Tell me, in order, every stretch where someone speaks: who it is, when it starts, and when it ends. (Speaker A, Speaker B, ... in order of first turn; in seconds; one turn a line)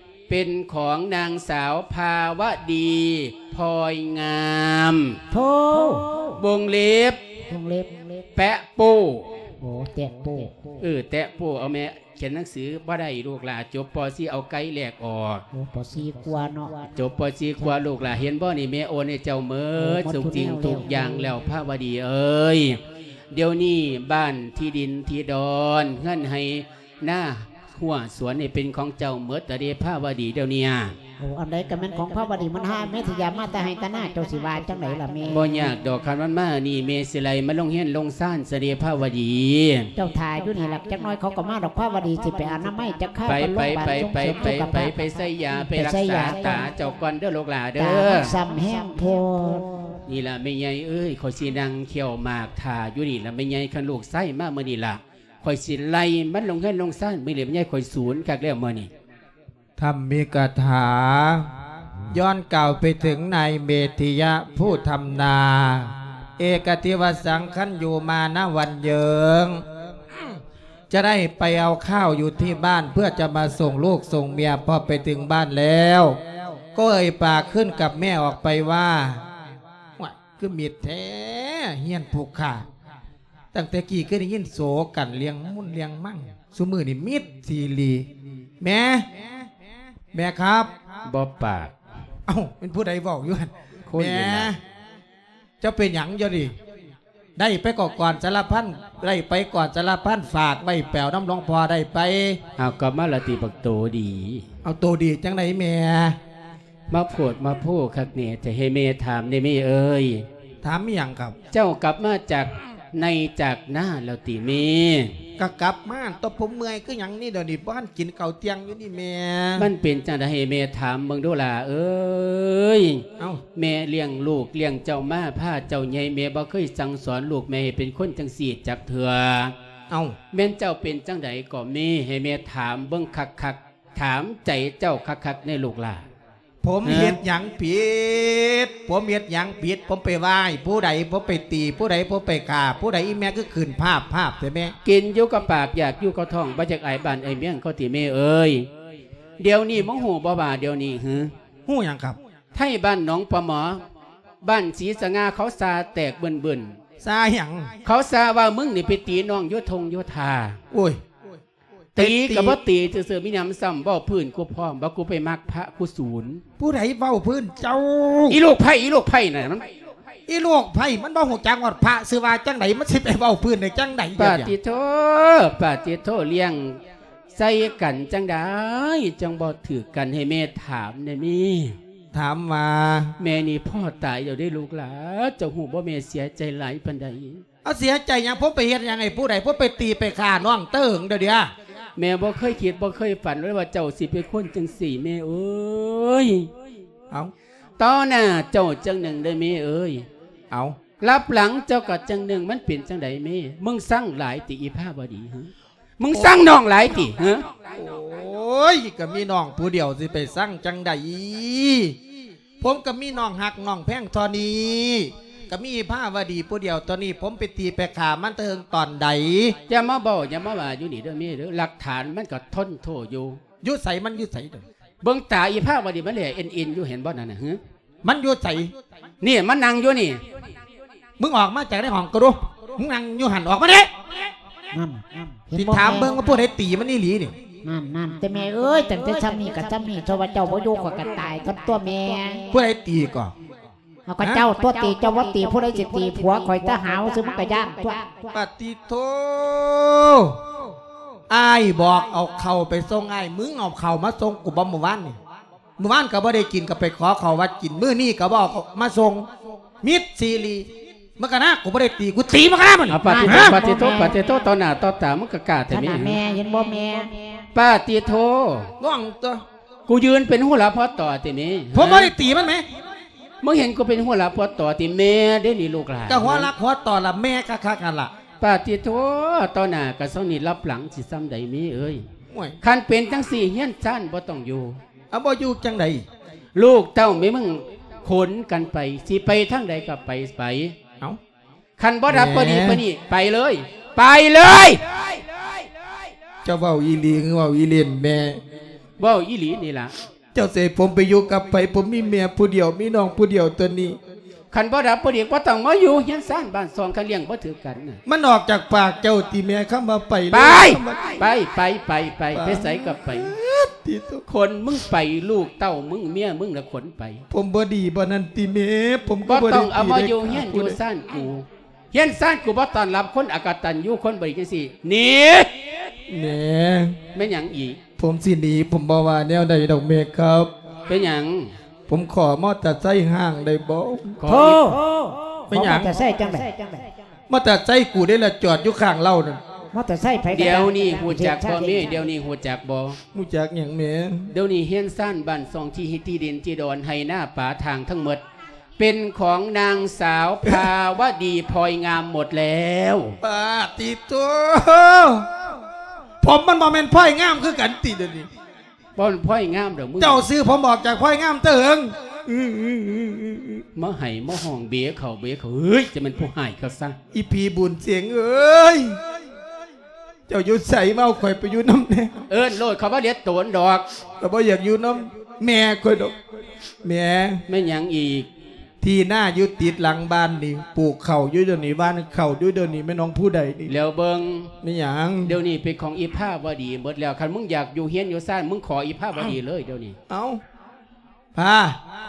Speaker A: 0.3-5.2
Speaker B: 5.3-6.4
Speaker A: 6.3-7.2
Speaker B: 7.5-8.0
Speaker A: 8.3-9.4
Speaker B: 9.6-10.6
Speaker A: 10.8-15.4
Speaker B: 15.5-16.9
Speaker A: 16.9-31.0
Speaker B: 19.8-21.2
Speaker B: 31.2-35.7
Speaker A: 35.3-39.9
Speaker B: 40.0-45.1
Speaker A: 43.2-48.3
Speaker B: 45.6-46.7
Speaker B: 47.8-49.9
Speaker A: 50.1-58.9
Speaker C: 59.8-61.5
Speaker C: 62.1-69.6
Speaker C: 70.9-76.2
Speaker C: 76.7-79.2
Speaker C: 80.0-82.7
Speaker C: 83.5-88.1
Speaker C: 88.6-89.1
Speaker C: 90.1-90.7
Speaker A: 91.0-91.7
Speaker C: 92.3-94.6
Speaker A: 93.9-94.5
Speaker C: 95.6-96.5
Speaker C: 97.4-102.4
Speaker A: 102.6-104.5
Speaker C: 104.6-106.2
Speaker A: 106.9-110.2
Speaker C: 110.6-111.3
Speaker A: 111.5-115.2
Speaker C: 115.4-119.7
Speaker A: 119.6-129.5
Speaker C: 129.9-130.2
Speaker A: 130.3-136.1
Speaker C: 136.6-144.7
Speaker A: 136.8-137.2
Speaker A: 144.8-148.7
Speaker A: 149.4-151.3
Speaker C: 151.7-152.2
Speaker A: 152.5-153.8
Speaker A: 154.4-156.8
Speaker C: 157.0-157.7
Speaker A: 157.8-160.6
Speaker C: 160.7-161.0
Speaker C: 161.9-162.6
Speaker A: 161.9-166.4
Speaker C: 166.6-168.4
Speaker A: 168.3-169.7
Speaker C: 170.3-174.5
Speaker A: 174.2-176.8
Speaker A: 177.3-181.8
Speaker C: 182.1-183.1
Speaker A: 183.2-187.4
Speaker C: 187.6-191.5
Speaker A: 192.0-196.5
Speaker A: 197.8-200.1
Speaker C: 200.5-200.8
Speaker A: 201.0-207.5
Speaker C: 207.7-212.0
Speaker C: 212.6-219.6
Speaker A: 219.7-223.4
Speaker C: 223.6-224.6
Speaker A: 225.0-227.6
Speaker C: 228.0-228.7
Speaker A: 229.2-230.2
Speaker C: 231.2-233.9
Speaker B: 234.7-236.2
Speaker C: 235.5-237.3
Speaker B: 237.6-242.4
Speaker C: 242.5-243.3
Speaker B: 244.1-248.1
Speaker C: 248.3-250.4
Speaker C: 251.3-255.2
Speaker C: 255.8-259.3
Speaker C: 259.8-263.6
Speaker A: 262.9-266.2
Speaker B: 263.1-264.2
Speaker B: 265.7-267.1
Speaker A: 267.5-268.7
Speaker C: 268.8-269.4
Speaker A: 269.9-272.1
Speaker C: 271.7-272.7
Speaker A: 273.4-276.5
Speaker C: 276.1-278.1
Speaker A: 278.4-282.1
Speaker C: 282.3-282.6
Speaker A: 282.6-284.8
Speaker C: 285.1-286.0
Speaker A: 286.6-290.7
Speaker A: 291.8-295.2
Speaker C: 292.1-292.8
Speaker C: 296.4-298.4
Speaker A: 299.0-299.9
Speaker C: 300.3-304.0
Speaker A: 304.5-308.0
Speaker C: 308.1-311.3
Speaker A: 310.3-313.3
Speaker C: 312.3-314.2
Speaker A: 314.3-317.2
Speaker C: 317.3-320.8
Speaker A: 319.2-325.7
Speaker C: 326.1-327.0
Speaker A: 327.1-327.8
Speaker C: 328.0-330.5
Speaker A: 330.9-331.5
Speaker C: 331.9-334.2
Speaker A: 334.2-334.7
Speaker B: 334.3-336.8
Speaker C: 335.5-336.1
Speaker C: 337.3-339.4
Speaker B: 339.7-342.0
Speaker A: 340.3-343.0
Speaker C: 343.1-344.3
Speaker A: 344.3-348.2
Speaker A: 348.8-353.2
Speaker C: 353.2-355.4
Speaker C: 356.2-358.3
Speaker A: 358.9-360.3
Speaker C: 360.0-363.6
Speaker A: 363.7-366.9
Speaker C: 367.1-369.0
Speaker C: 370.3-372.2
Speaker A: 372.3-373.9
Speaker C: 374.2-376.2
Speaker C: 376.8-377.4
Speaker A: 377.5-378.3
Speaker C: 378.8-383.7
Speaker A: 383.6-384.5
Speaker C: 384.6-385.3
Speaker A: 385.2-390.0
Speaker C: 390.1-390.4
Speaker C: 391.3-391.8